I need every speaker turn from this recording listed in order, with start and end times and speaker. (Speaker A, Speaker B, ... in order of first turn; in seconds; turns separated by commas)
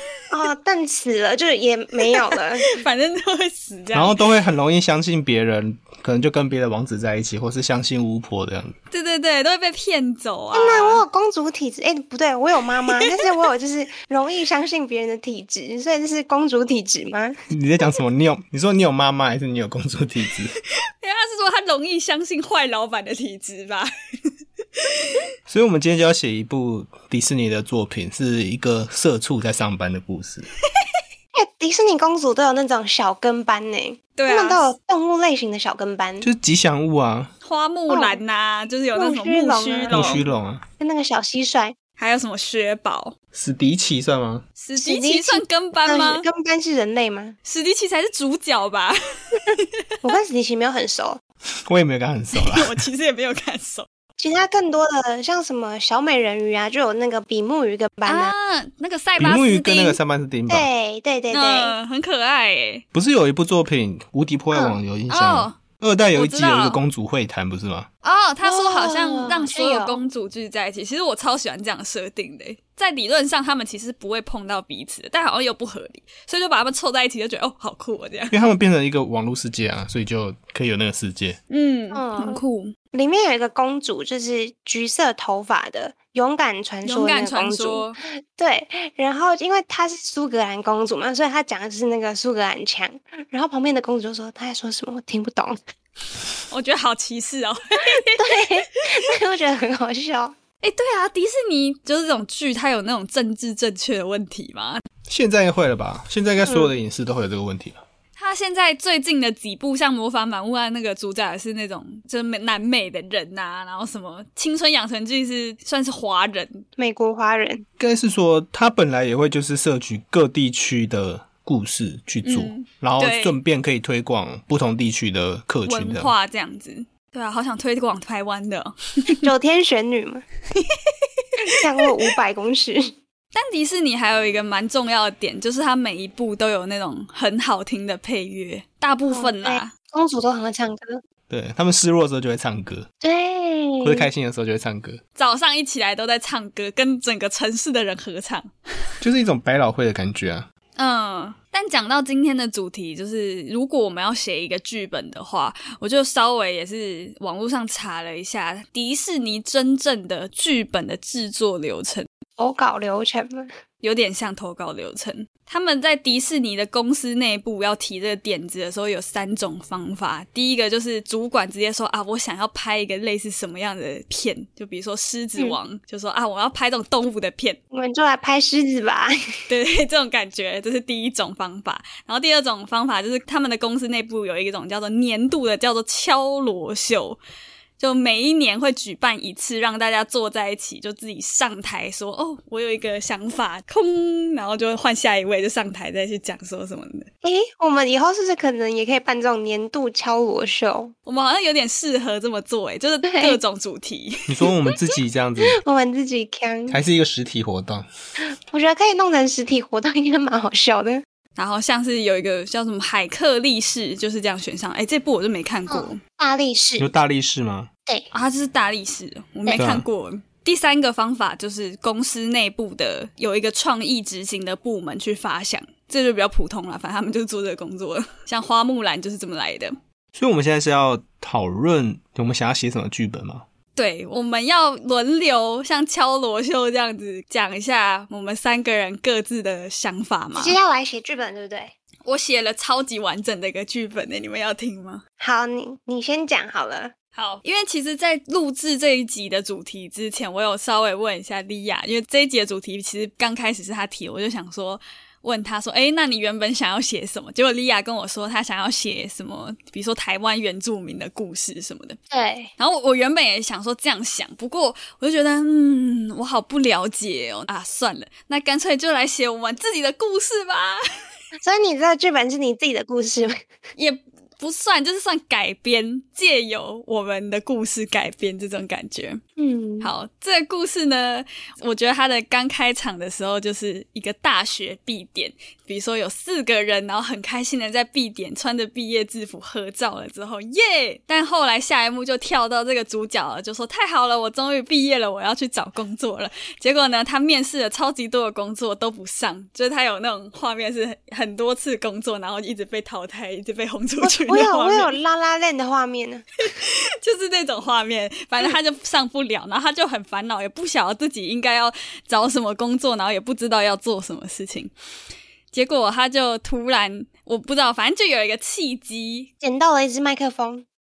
Speaker A: 0.3-2.7, Speaker B: 2.7-4.2, Speaker C: 3.9-8.8, Speaker B: 8.9-11.0, Speaker A: 10.5-17.4, Speaker B: 12.9-13.2, Speaker C: 17.5-20.6, Speaker B: 21.0-23.9, Speaker B: 24.8-25.2, Speaker C: 25.5-30.5, Speaker A: 31.4-36.3, Speaker B: 34.2-34.6, Speaker C: 36.2-37.3, Speaker B: 37.4-40.2, Speaker A: 37.9-38.2, Speaker A: 38.9-41.8, Speaker C: 39.9-40.6, Speaker B: 42.0-43.1, Speaker C: 43.3-44.4, Speaker B: 44.6-46.2, Speaker A: 44.8-47.4, Speaker B: 47.5-49.6, Speaker A: 50.0-51.2, Speaker C: 51.7-52.8, Speaker B: 52.4-53.9, Speaker A: 54.2-58.3, Speaker B: 58.1-60.0, Speaker C: 59.2-60.7, Speaker A: 60.5-61.7, Speaker B: 61.3-62.8, Speaker C: 62.9-67.9, Speaker A: 64.5-64.8, Speaker B: 65.1-65.6, Speaker B: 66.2-66.8, Speaker B: 68.0-78.3, Speaker A: 68.4-70.0, Speaker C: 78.3-81.4, Speaker B: 81.5-82.7, Speaker A: 81.9-82.4, Speaker A: 82.9-87.8, Speaker B: 86.8-88.0, Speaker A: 88.4-95.6, Speaker B: 96.5-98.5, Speaker A: 98.2-100.3, Speaker B: 100.6-104.8, Speaker C: 105.1-107.8, Speaker A: 106.5-106.7, Speaker B: 108.2-116.7, Speaker A: 116.8-117.6, Speaker C: 117.8-126.1, Speaker B: 122.2-123.4, Speaker B: 125.7-129.2, Speaker A: 129.2-130.2, Speaker B: 130.6-131.3, Speaker A: 131.4-132.9, Speaker B: 133.3-139.7, Speaker A: 139.1-141.0, Speaker C: 141.3-142.9, Speaker A: 143.0-144.1, Speaker C: 143.8-145.0, Speaker B: 145.2-148.5, Speaker C: 149.0-150.5, Speaker B: 150.8-162.1, Speaker A: 162.4-163.5, Speaker B: 163.8-177.6, Speaker A: 177.7-179.1, Speaker B: 179.5-187.2, Speaker B: 187.8-197.1, Speaker A: 197.2-200.9, Speaker B: 201.1-204.2, Speaker A: 203.0-203.4, Speaker C: 204.3-205.6, Speaker A: 205.5-206.8, Speaker C: 206.7-207.9, Speaker A: 208.5-211.0, Speaker B: 211.4-216.0, Speaker A: 215.7-216.9, Speaker C: 216.8-217.7, Speaker B: 218.1-229.8, Speaker C: 219.5-219.8, Speaker C: 230.2-233.4, Speaker B: 233.8-240.6, Speaker A: 240.4-241.7, Speaker B: 242.1-245.0, Speaker A: 245.2-246.9, Speaker B: 247.2-262.0, Speaker A: 262.1-262.5, Speaker B: 262.6-270.8, Speaker A: 271.4-273.4, Speaker B: 273.8-279.2, Speaker A: 279.4-279.9, Speaker B: 279.8-304.9, Speaker A: 304.0-306.3, Speaker B: 306.5-314.7, Speaker B: 315.5-319.3, Speaker A: 319.4-320.6